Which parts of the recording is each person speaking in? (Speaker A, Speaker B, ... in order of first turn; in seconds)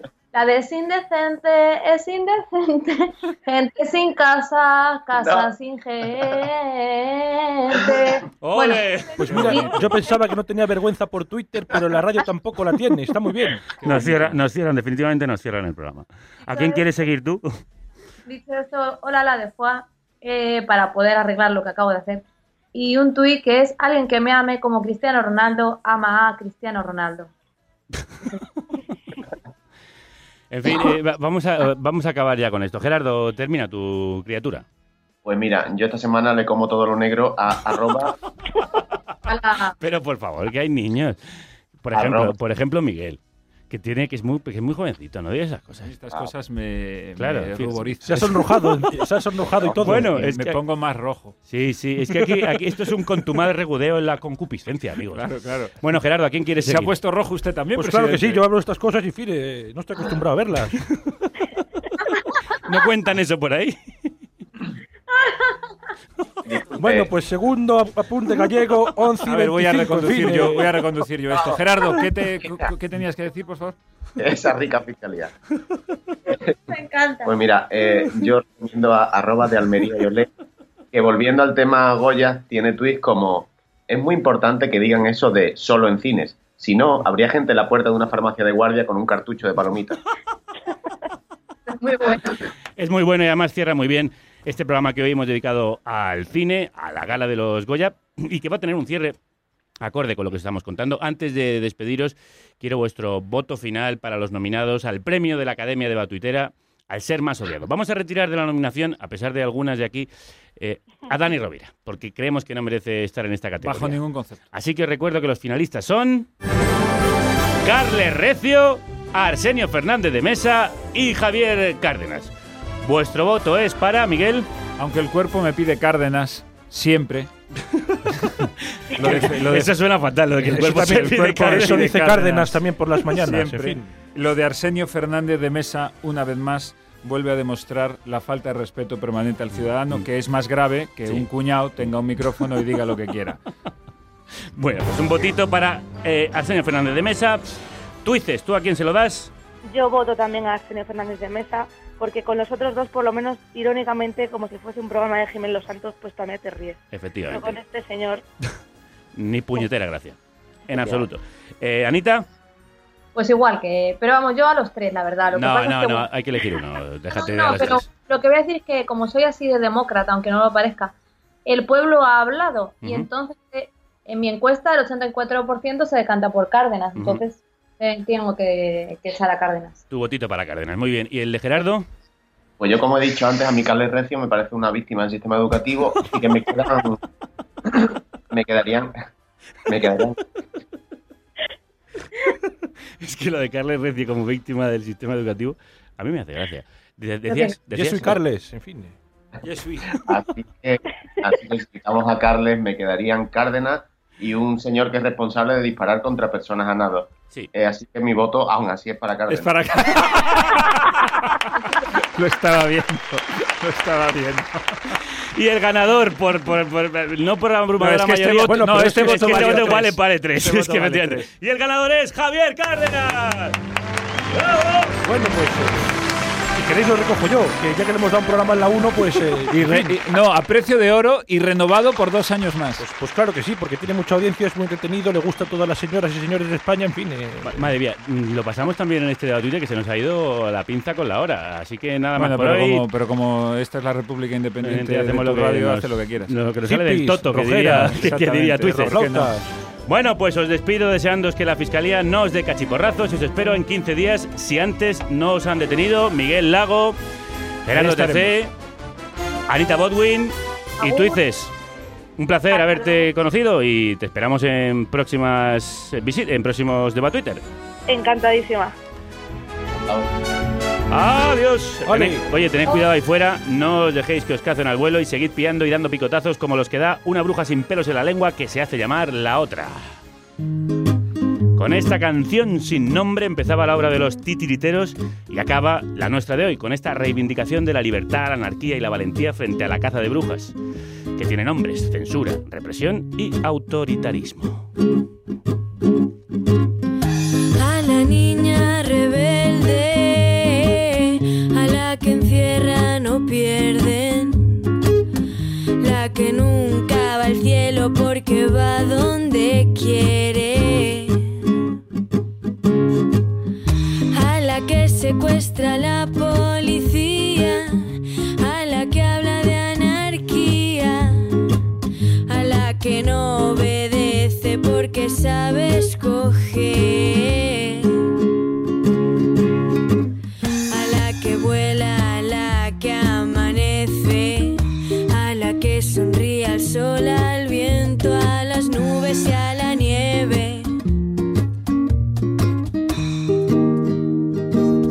Speaker A: 0.3-10.2, 16.5-16.8, 18.3-22.2, 22.7-27.3, 39.3-39.8, 76.7-77.4, 91.7-92.4, 163.2-166.1, 167.1-170.9, 171.5-179.8, 197.3-197.6, 260.8-261.2, 262.5-263.1
Speaker B: 5.2-5.5, 35.2-38.1, 41.9-42.3, 66.5-67.1, 74.2-75.3, 77.3-80.3, 80.9-90.0, 182.6-187.0, 188.3-188.9, 189.7-190.2, 200.1-209.5
Speaker C: 8.4-9.8, 13.8-17.5, 30.5-34.6, 39.8-41.2, 41.8-43.2, 43.7-45.9, 47.2-48.0, 49.8-50.6, 51.5-56.9, 62.6-63.8, 92.8-99.2, 99.8-116.3, 117.6-122.3, 122.8-124.5, 128.9-131.9, 144.6-147.4, 148.0-149.3, 156.9-157.6, 159.2-162.3, 165.3-167.9, 172.8-173.1, 177.0-177.2, 179.9-181.9, 193.0-198.2, 215.4-223.6, 224.3-224.9, 237.4-242.9, 244.6-249.0, 249.9-257.0, 257.7-258.5, 259.5-261.5, 262.2-267.4, 270.9-280.0, 281.6-290.6, 291.2-294.7
Speaker D: 9.2-14.3, 48.0-50.3, 57.7-60.8, 66.8-70.7, 130.4-133.9, 197.7-198.9, 218.4-221.2, 225.0-225.9, 226.5-230.0, 232.8-237.7, 246.7-249.5, 271.9-272.3
Speaker E: 45.8-48.5, 49.9-51.4, 52.1-52.6, 55.1-55.8, 56.6-58.4, 69.2-73.8, 113.6-114.4, 124.8-127.3, 129.0-129.8, 131.1-132.6, 133.1-143.4, 199.4-199.9, 209.3-211.5, 212.2-214.6, 217.8-220.0, 220.7-221.0, 229.5-232.8, 242.2-246.3, 248.0-249.3, 257.7-258.4
Speaker F: 149.7-158.2, 267.9-268.7
Speaker G: 297.6-304.7, 305.8-311.2, 314.1-317.8, 318.4-321.3, 322.3-327.9, 330.7-340.7